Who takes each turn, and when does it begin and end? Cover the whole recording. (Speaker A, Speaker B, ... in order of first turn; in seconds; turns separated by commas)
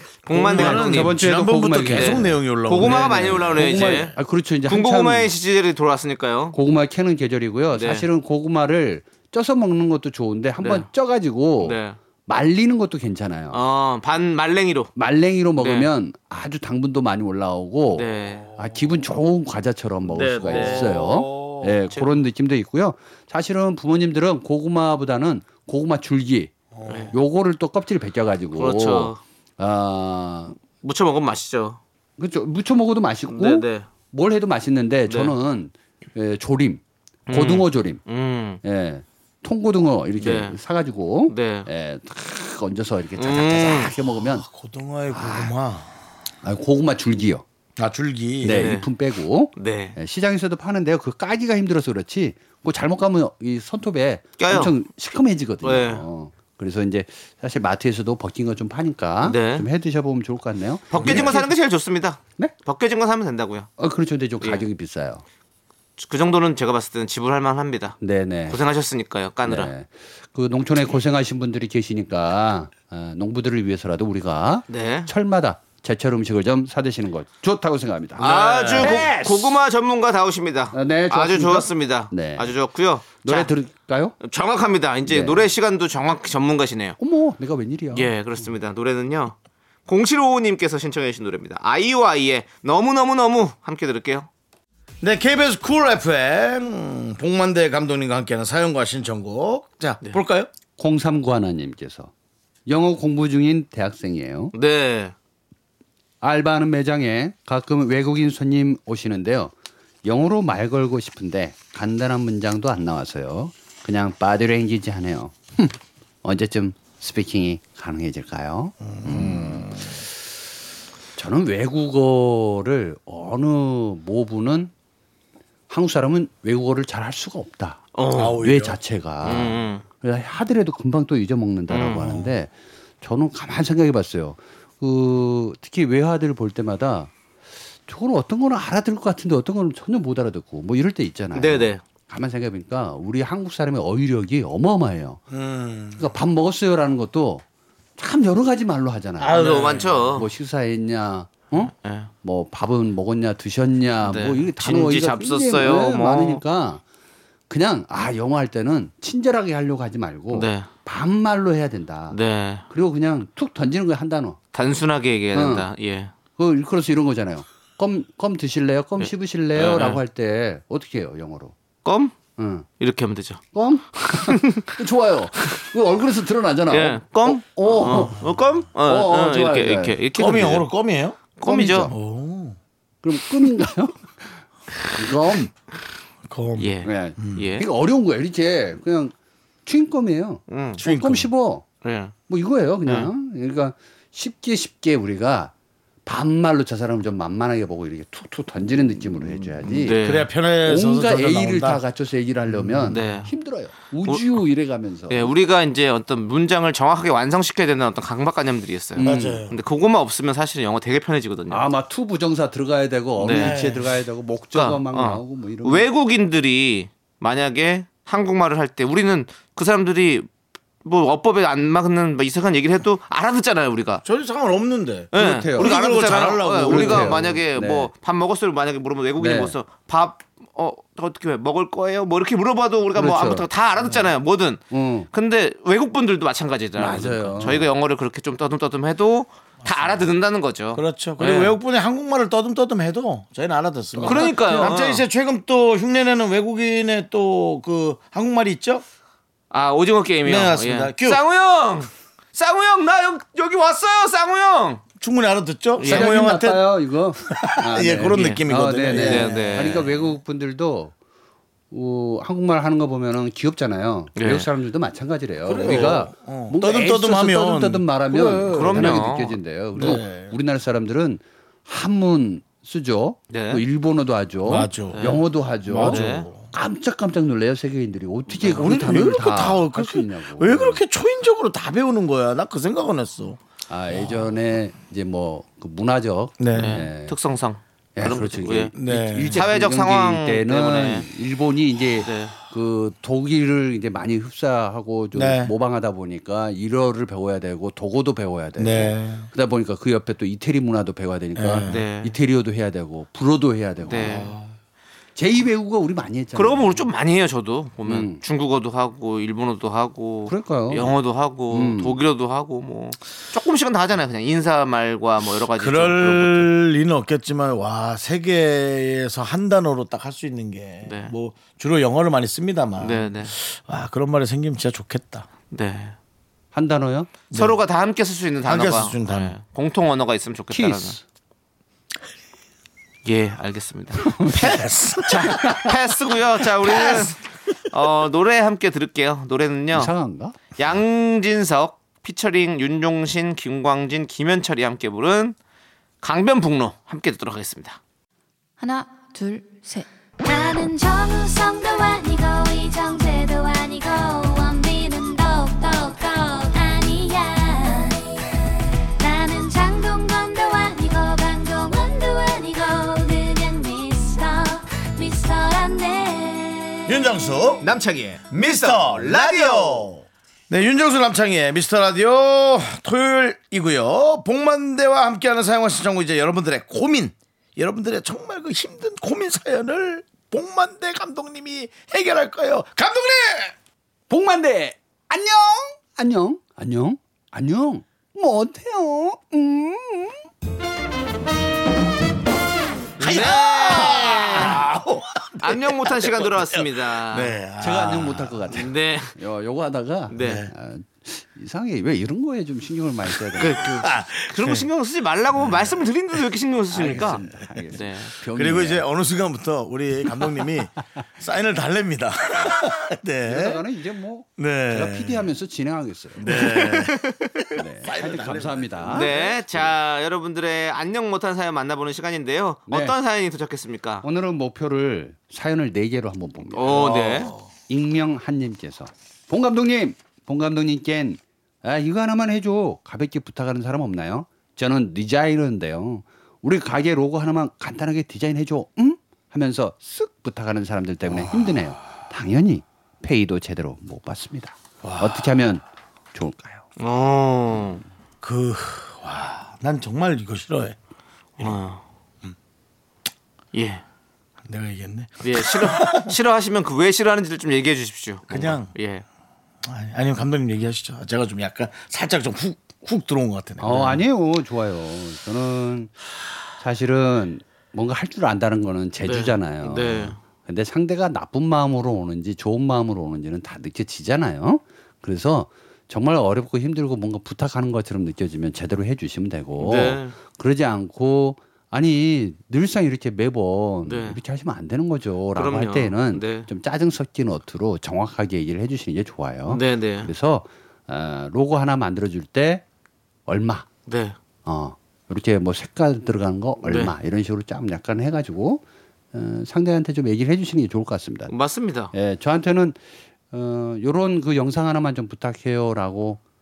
Speaker A: 0.2-1.2, Speaker B: 0.3-4.1, Speaker C: 0.5-5.3, Speaker A: 1.9-4.2, Speaker A: 4.7-6.6, Speaker C: 6.5-13.6, Speaker A: 7.7-8.1, Speaker A: 10.6-10.9, Speaker A: 11.6-12.0, Speaker A: 13.5-14.9, Speaker C: 15.0-26.6, Speaker A: 15.6-15.9, Speaker A: 17.9-18.5, Speaker A: 20.1-21.0, Speaker B: 20.5-21.8, Speaker B: 26.8-27.1, Speaker A: 26.9-27.1, Speaker C: 27.1-30.6, Speaker A: 28.6-29.2, Speaker A: 30.8-31.8, Speaker C: 32.2-38.0, Speaker A: 33.3-33.9, Speaker A: 35.1-35.3, Speaker A: 37.3-38.6, Speaker C: 38.6-44.5, Speaker A: 40.2-40.6, Speaker A: 41.3-41.7, Speaker A: 43.2-43.9, Speaker B: 44.2-45.9, Speaker C: 45.1-45.5, Speaker C: 46.4-47.4, Speaker B: 47.8-48.7, Speaker C: 48.4-61.5, Speaker A: 48.5-48.9, Speaker A: 49.6-50.0, Speaker A: 54.4-54.7, Speaker A: 55.6-56.0, Speaker A: 59.2-59.7, Speaker A: 60.9-63.7, Speaker B: 61.0-61.4, Speaker C: 63.8-65.2, Speaker A: 66.0-68.0, Speaker C: 68.0-68.6, Speaker A: 68.5-69.7, Speaker C: 69.5-79.6, Speaker A: 74.7-75.1, Speaker B: 78.2-79.1, Speaker A: 78.2-83.5, Speaker C: 80.7-82.5, Speaker C: 83.2-84.2, Speaker A: 84.2-87.0, Speaker C: 85.1-85.5, Speaker C: 87.0-88.2, Speaker A: 87.9-94.3, Speaker B: 95.0-100.5, Speaker C: 100.8-102.1, Speaker C: 102.7-104.5, Speaker A: 104.5-105.1, Speaker C: 106.2-109.5, Speaker C: 110.0-119.9, Speaker B: 118.8-120.0, Speaker C: 121.2-124.7, Speaker C: 125.7-137.1, Speaker A: 128.0-128.4, Speaker B: 128.1-128.8, Speaker A: 129.2-129.8, Speaker A: 131.7-132.2, Speaker C: 137.9-145.2, Speaker A: 141.3-141.8, Speaker B: 145.3-146.1, Speaker C: 145.9-147.4, Speaker C: 148.0-156.8, Speaker B: 149.2-150.1, Speaker A: 149.2-150.3, Speaker A: 151.8-152.1, Speaker A: 154.0-156.4, Speaker C: 157.5-162.2, Speaker A: 160.3-160.7, Speaker A: 162.1-162.7, Speaker C: 162.7-164.4, Speaker A: 164.5-166.1, Speaker C: 165.3-165.7, Speaker C: 166.4-171.5, Speaker A: 169.0-170.0, Speaker A: 171.8-172.1, Speaker C: 172.4-172.7, Speaker A: 172.8-173.4, Speaker C: 173.5-178.2, Speaker A: 174.0-174.8, Speaker A: 176.7-180.7, Speaker C: 178.8-180.0, Speaker B: 180.2-181.2, Speaker A: 181.4-181.9, Speaker C: 181.4-181.9, Speaker B: 181.9-182.6, Speaker C: 183.0-184.3, Speaker C: 184.9-185.5, Speaker B: 186.3-187.5, Speaker A: 186.6-187.7, Speaker C: 186.8-189.1, Speaker C: 189.7-191.7, Speaker A: 190.5-190.8, Speaker B: 190.8-191.3, Speaker A: 191.8-192.1, Speaker C: 192.3-195.5, Speaker A: 192.9-193.1, Speaker C: 196.1-200.0, Speaker B: 199.7-201.8, Speaker A: 199.8-200.3, Speaker C: 200.6-205.3, Speaker B: 202.5-203.0, Speaker A: 202.9-203.3, Speaker A: 204.1-204.4, Speaker A: 205.1-211.7, Speaker C: 209.0-209.5, Speaker B: 209.0-209.6, Speaker C: 211.5-215.9, Speaker A: 213.2-213.6, Speaker B: 213.3-214.0, Speaker A: 214.5-220.3, Speaker A: 220.8-224.0, Speaker B: 224.0-227.3, Speaker A: 225.1-241.6, Speaker C: 225.2-225.8, Speaker C: 226.6-227.9, Speaker C: 229.2-229.6, Speaker C: 232.9-233.5, Speaker C: 234.7-235.1, Speaker C: 236.8-237.7, Speaker B: 239.6-240.1, Speaker B: 240.7-248.8, Speaker C: 243.9-244.8, Speaker A: 244.1-245.0, Speaker A: 249.5-254.8, Speaker B: 250.2-251.2, Speaker B: 255.0-256.7, Speaker A: 255.8-256.1, Speaker C: 255.8-260.9, Speaker B: 257.3-259.9, Speaker A: 258.1-259.9, Speaker C: 261.7-280.8, Speaker A: 264.2-264.5, Speaker B: 265.5-269.1, Speaker A: 268.5-269.4, Speaker B: 269.8-270.4, Speaker A: 273.3-273.6, Speaker B: 274.4-275.1, Speaker A: 274.9-275.2, Speaker B: 275.7-276.5, Speaker A: 275.8-276.3, Speaker B: 278.5-283.4, Speaker C: 283.7-287.1, Speaker B: 283.9-284.3, Speaker B: 286.4-286.8, Speaker A: 286.5-288.7, Speaker C: 288.0-304.3, Speaker B: 288.8-289.4, Speaker A: 289.3-291.1, Speaker A: 292.0-292.4, Speaker B: 295.1-295.5, Speaker B: 298.6-299.3, Speaker B: 301.4-301.8, Speaker A: 301.7-302.1, Speaker A: 303.9-304.3, Speaker B: 303.9-304.6, Speaker C: 305.2-306.9, Speaker A: 306.4-316.5, Speaker C: 307.8-308.2, Speaker C: 310.3-310.9, Speaker C: 311.5-312.0, Speaker B: 315.6-325.3, Speaker A: 320.9-321.1, Speaker A: 322.8-323.3, Speaker A: 325.5-326.0, Speaker C: 326.5-327.1, Speaker B: 327.3-327.6, Speaker A: 327.3-331.0, Speaker B: 328.4-329.4, Speaker C: 330.5-331.0, Speaker A: 333.1-339.9, Speaker C: 334.0-335.7, Speaker B: 334.3-335.6, Speaker B: 336.6-337.0, Speaker C: 339.7-340.5, Speaker A: 340.6-345.4, Speaker A: 346.0-347.8, Speaker D: 348.6-358.1, Speaker D: 359.0-366.9, Speaker B: 366.9-367.7, Speaker A: 367.6-369.9, Speaker B: 368.3-383.6, Speaker C: 384.1-390.2, Speaker A: 393.0-394.6, Speaker B: 393.0-398.6, Speaker A: 395.4-397.4, Speaker C: 397.6-403.7, Speaker A: 398.5-399.2, Speaker A: 400.1-400.4, Speaker B: 400.2-400.5, Speaker B: 403.1-404.7, Speaker A: 403.4-407.2, Speaker B: 405.4-405.8, Speaker C: 406.7-408.9, Speaker A: 407.7-408.1, Speaker B: 408.3-413.6, Speaker C: 413.2-416.4, Speaker B: 414.4-415.3, Speaker B: 416.2-419.3, Speaker A: 416.3-417.4, Speaker C: 417.6-419.3, Speaker A: 418.9-424.1, Speaker C: 422.7-422.9, Speaker C: 424.0-426.8, Speaker A: 426.6-427.3, Speaker B: 426.6-427.5, Speaker C: 427.7-446.7, Speaker B: 441.1-441.6, Speaker B: 444.8-445.3, Speaker A: 446.8-447.8, Speaker B: 448.2-450.8, Speaker A: 451.4-451.8, Speaker A: 453.5-453.8, Speaker B: 454.5-456.1, Speaker A: 455.2-459.1, Speaker B: 458.3-458.7, Speaker B: 459.6-464.0, Speaker C: 463.6-465.9, Speaker C: 466.6-492.6, Speaker A: 469.1-470.2, Speaker A: 479.6-480.2, Speaker A: 483.9-484.2, Speaker A: 485.4-486.5, Speaker A: 489.5-490.1, Speaker C: 493.3-493.7, Speaker A: 493.9-494.2, Speaker C: 494.4-501.3, Speaker A: 496.7-496.9, Speaker A: 501.3-501.9, Speaker C: 501.9-502.8, Speaker C: 503.3-506.2